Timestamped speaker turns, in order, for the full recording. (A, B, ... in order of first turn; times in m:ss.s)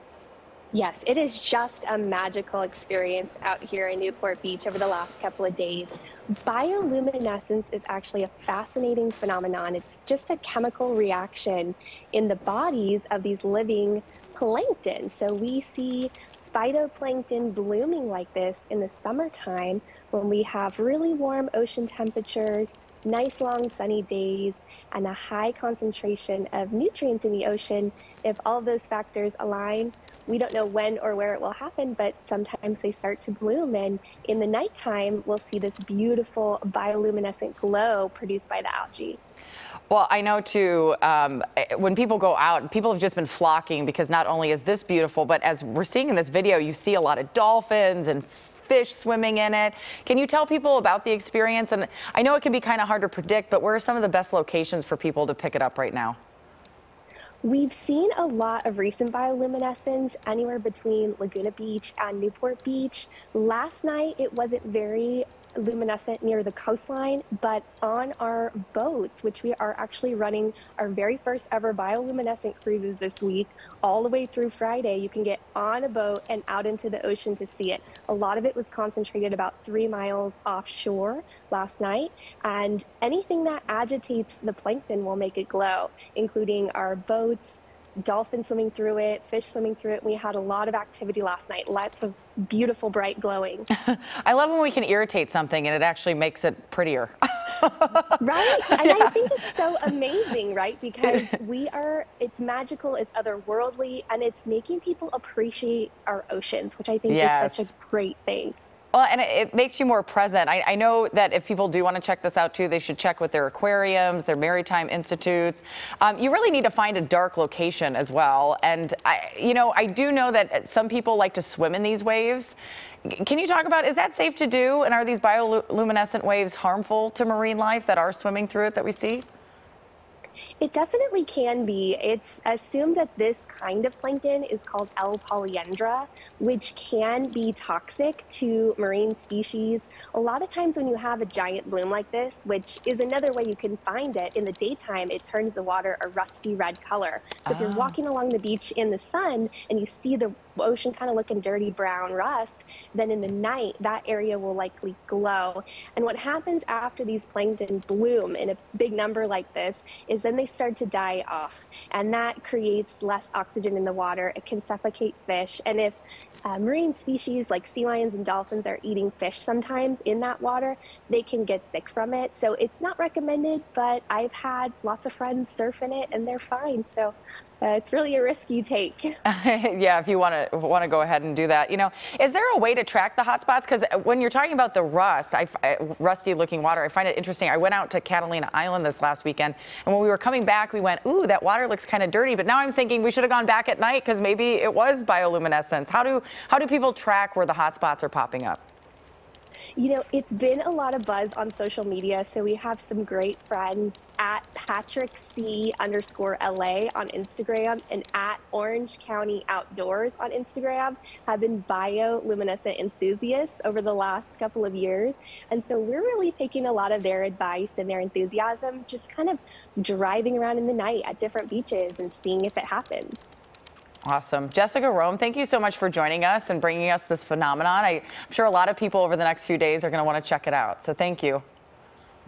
0:00.7-0:05.9 A
0:06.4-0:39.2 A
0:39.9-0:56.2 B
0:57.4-1:33.7 A
1:33.8-1:39.6 B
1:38.2-1:48.6 A
1:47.1-1:47.7 B
1:48.9-2:09.2 B
2:10.6-2:59.2 A
2:27.5-2:27.9 B
2:59.2-3:18.6 B
3:19.8-3:43.2 A
3:44.0-3:51.4 B